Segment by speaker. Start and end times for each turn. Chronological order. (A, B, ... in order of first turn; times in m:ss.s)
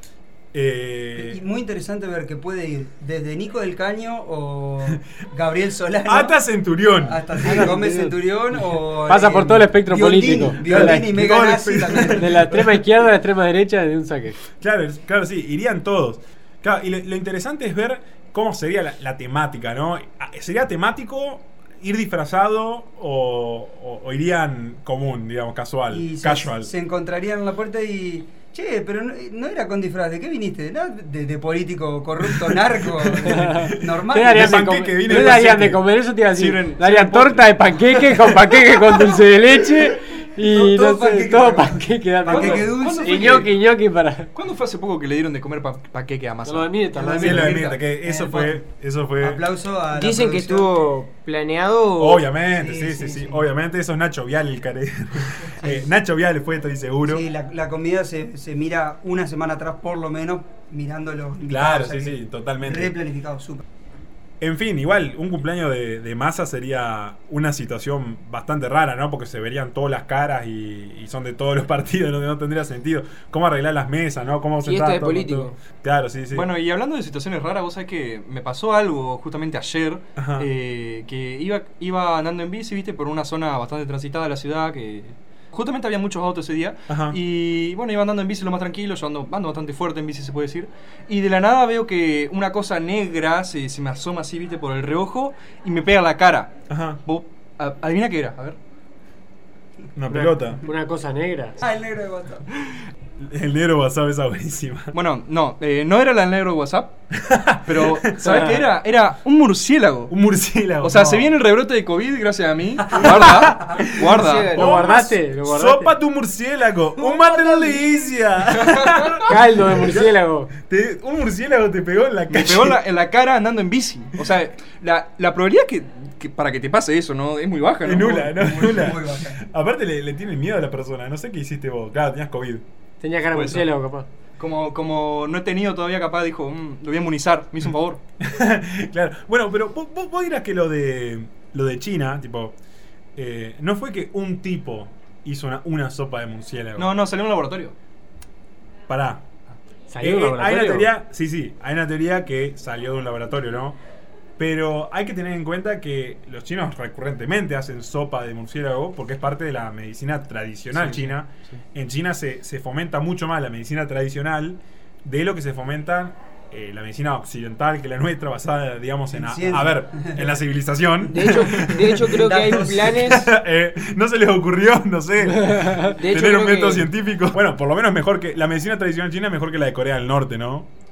0:00.5-0:01.4 A
0:01.2-0:06.4 B
0:06.1-0:07.7 A
0:07.0-0:12.3 B
0:07.4-0:11.1 C
0:10.6-0:12.8 A
0:12.0-0:14.4 C
0:14.6-0:26.7 A
0:25.9-0:34.7 B
0:33.0-0:35.8 A
0:33.3-0:44.3 C
0:36.3-0:37.7 D
0:40.4-0:43.5 B
0:42.3-0:43.5 D
0:44.4-0:47.8 D
0:46.4-0:47.6 C
0:46.9-0:48.6 B
0:47.2-0:49.4 A
0:49.2-0:50.7 B
0:49.9-0:52.3 E
0:52.0-0:57.2 A
0:52.4-0:53.4 B
0:55.6-0:55.9 B
0:57.0-1:03.6 B
1:01.5-1:02.9 A
1:04.4-1:16.5 A
1:14.6-1:15.6 E
1:16.3-1:38.6 D
1:20.2-1:20.5 A
1:26.9-1:27.2 A
1:36.7-1:37.0 A
1:40.0-1:40.6 A
1:40.1-1:41.6 C
1:41.6-1:42.5 B
1:43.2-1:44.9 A
1:44.9-1:47.0 D
1:47.2-1:48.7 A
1:47.7-1:50.1 D
1:48.2-1:48.5 C
1:50.1-1:51.3 A
1:50.8-1:54.6 D
1:53.0-2:02.8 A
1:54.1-1:54.8 E
1:54.5-1:55.9 C
1:58.7-1:59.0 D
1:59.3-2:00.5 C
2:02.3-2:08.4 D
2:07.8-2:12.6 A
2:08.4-2:09.4 B
2:13.0-2:14.1 C
2:13.3-2:13.7 D
2:14.4-2:18.0 D
2:18.2-2:22.6 A
2:23.2-2:26.9 A
2:26.8-2:27.8 D
2:28.9-2:29.3 A
2:29.9-2:30.9 C
2:30.0-2:33.8 A
2:34.4-2:52.2 A
2:40.8-2:41.6 D
2:49.1-2:50.4 B
2:51.1-2:53.3 E
2:51.2-2:53.0 B
2:52.9-3:00.7 A
2:55.3-2:55.9 C
2:55.8-2:56.9 E